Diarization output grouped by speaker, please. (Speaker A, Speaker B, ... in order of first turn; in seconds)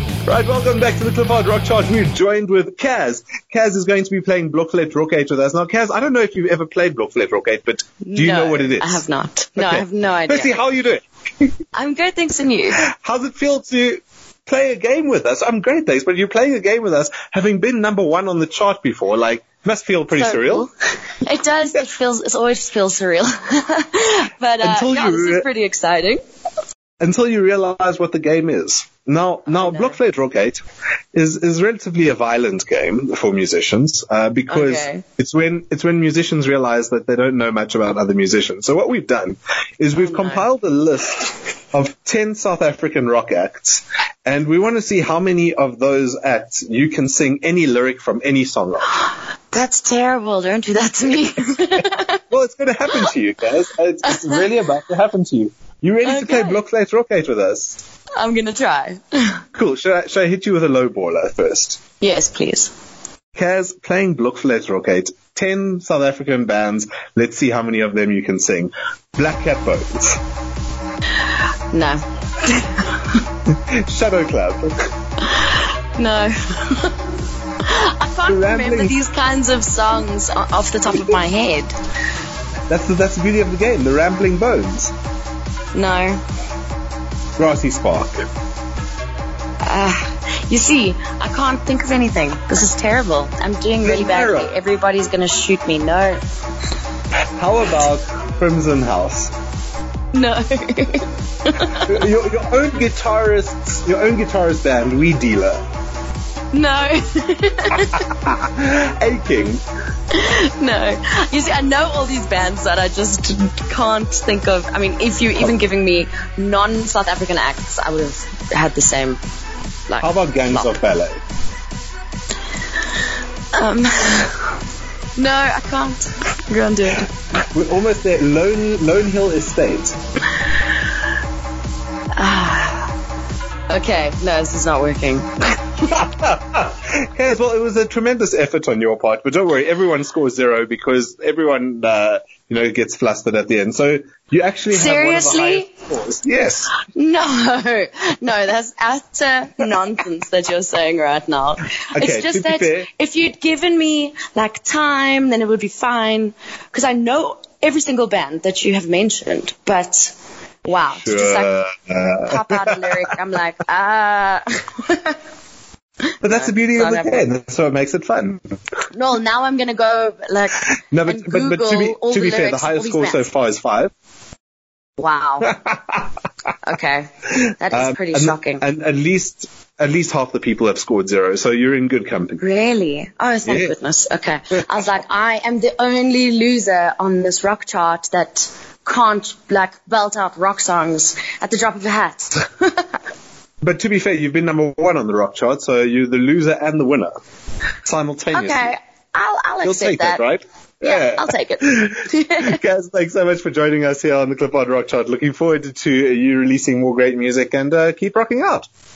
Speaker A: 0.2-9.0, 9.6-11.0, 12.9-20.7, 24.6-25.5, 27.0-30.6, 31.1-49.0, 52.3-57.8, 59.5-61.8, 63.4-70.2, 73.8-74.7, 78.3-78.9, 82.7-84.9, 87.4-88.2, 93.8-94.5, 97.4-99.3, 101.8-105.6, 108.1-109.6, 120.0-121.2, 127.5-129.9, 135.8-146.7, 151.9-152.9, 160.9-162.9, 166.2-168.4, 170.7-173.9, 175.4-176.0, 177.7-182.4, 183.4-183.7, 193.6-197.1, 197.8-198.7, 199.6-208.7
Speaker B: 8.0-10.6, 11.7-12.8, 20.1-26.2, 29.5-30.0, 34.5-35.0, 39.9-40.5, 49.5-52.2, 54.0-54.4, 56.0-56.6, 58.2-59.4, 62.0-62.7, 71.7-73.0, 75.2-76.9, 77.6-81.7, 85.7-86.2, 89.6-96.2, 100.1-102.0, 106.5-108.0, 110.1-119.2, 119.9-120.8, 123.5-124.5, 125.2-127.1, 132.2-132.9, 133.7-135.3, 144.7-145.7, 146.8-161.6, 162.1-165.2, 166.2-167.2, 168.9-173.3, 175.0-175.6, 176.6-178.6, 182.4-193.0, 198.3-200.2, 200.8-202.6